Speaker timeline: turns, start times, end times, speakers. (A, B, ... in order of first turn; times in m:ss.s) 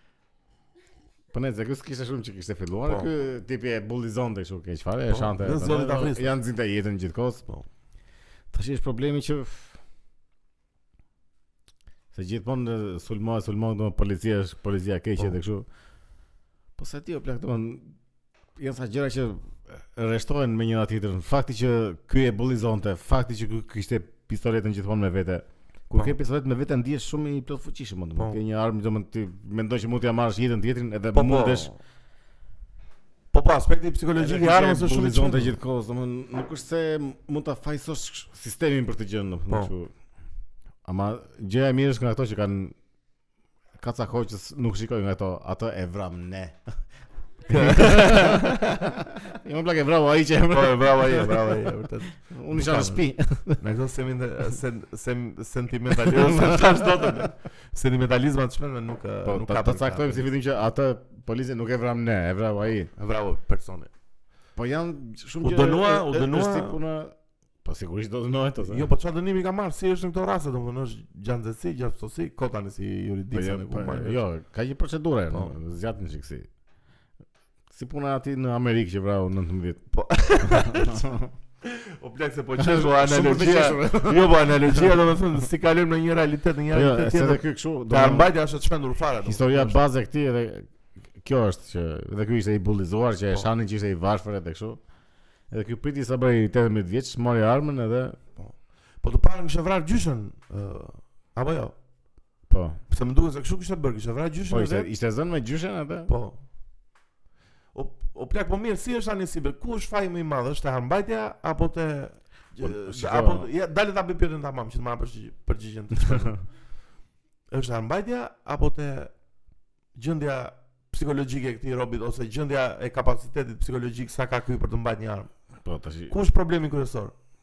0:01.3-0:07.4 A
0:05.1-0:06.3 B
0:08.5-0:09.8 A
0:12.1-0:15.7 A
0:16.8-0:18.0 A
0:18.6-0:31.7 A
0:31.1-0:31.8 B
0:33.3-0:35.6 B
0:34.2-0:39.9 A
0:40.8-0:42.8 A
0:43.8-0:46.6 A
0:47.5-0:51.6 A
0:47.5-0:49.0 B
0:50.5-0:53.0 B
0:52.2-0:53.6 A
0:53.6-1:00.3 B
0:55.9-0:57.3 A
0:59.2-1:02.9 A
1:03.0-1:03.9 B
1:04.6-1:08.9 A
1:05.4-1:06.8 B
1:08.6-1:14.2 B
1:13.3-1:16.5 A
1:17.7-1:19.8 A
1:19.9-1:21.1 B
1:20.4-1:21.3 A
1:21.6-1:29.8 B
1:22.6-1:25.0 A
1:26.7-1:28.3 A
1:29.2-1:34.8 A
1:35.5-1:38.2 A
1:38.4-1:41.7 B
1:42.5-1:42.8 A
1:42.9-1:44.9 B
1:44.5-1:46.1 A
1:46.1-1:46.4 B
1:47.7-1:56.4 B
1:52.6-1:53.5 A
1:57.5-1:59.1 B
2:00.0-2:05.3 B
2:05.6-2:06.1 A
2:06.1-2:07.1 B